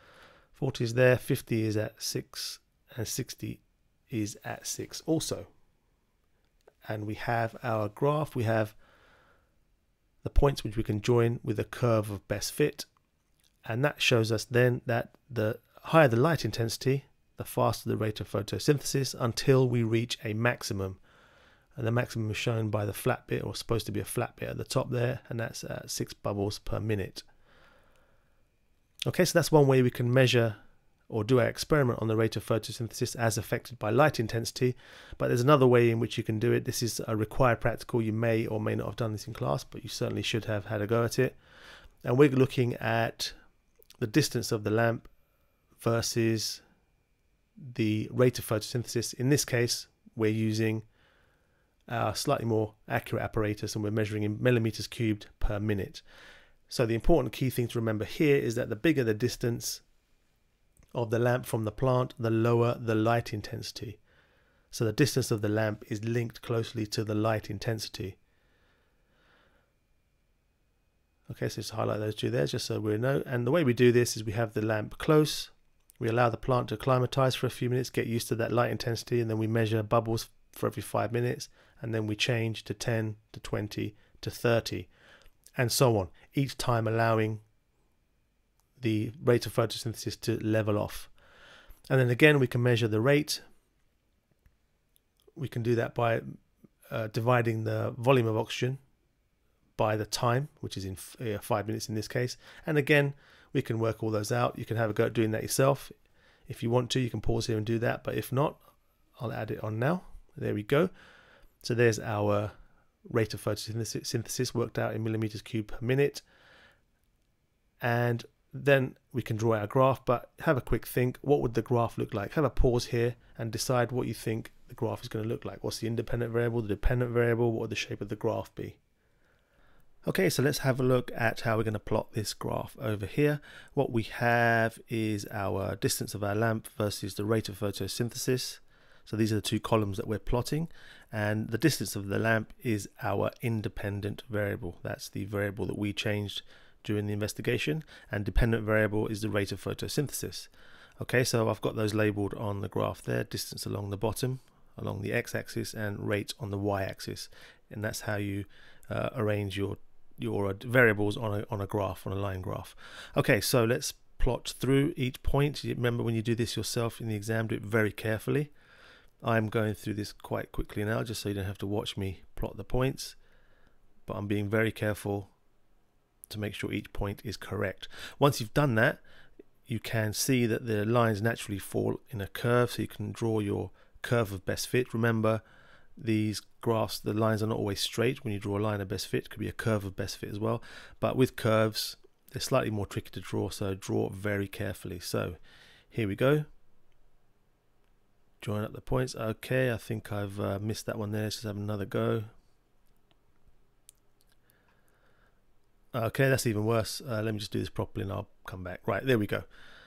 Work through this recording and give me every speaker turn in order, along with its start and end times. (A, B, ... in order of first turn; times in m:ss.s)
0:00.5-0:05.5 A
0:06.9-0:08.8 A
0:10.2-0:12.9 A
0:13.6-0:21.0 A
0:21.8-0:27.2 A
0:29.0-0:30.6 A
0:31.1-0:41.4 A
0:42.0-0:43.3 A
0:44.0-0:45.1 A
0:45.8-0:46.6 A
0:47.6-0:50.9 A
0:51.9-0:56.0 A
0:56.7-0:59.8 A
1:00.9-1:04.0 A
1:04.7-1:08.2 A
1:11.3-1:24.9 A
1:25.6-1:27.4 A
1:28.8-1:31.1 A
1:31.9-1:33.4 A
1:35.4-1:36.4 A
1:36.9-1:38.8 A
1:39.8-1:45.9 A
1:46.5-1:48.6 A
1:49.2-1:50.9 A
1:51.6-1:52.5 A
1:53.0-1:56.2 A
1:57.8-2:08.8 A
2:10.0-2:30.5 A
2:31.0-2:48.5 A
2:49.2-2:53.2 A
2:54.0-2:55.3 A
2:56.3-2:59.0 A
2:59.7-3:05.4 A
3:06.0-3:15.4 A
3:15.9-3:16.5 A
3:18.4-3:22.3 A
3:25.9-3:29.4 A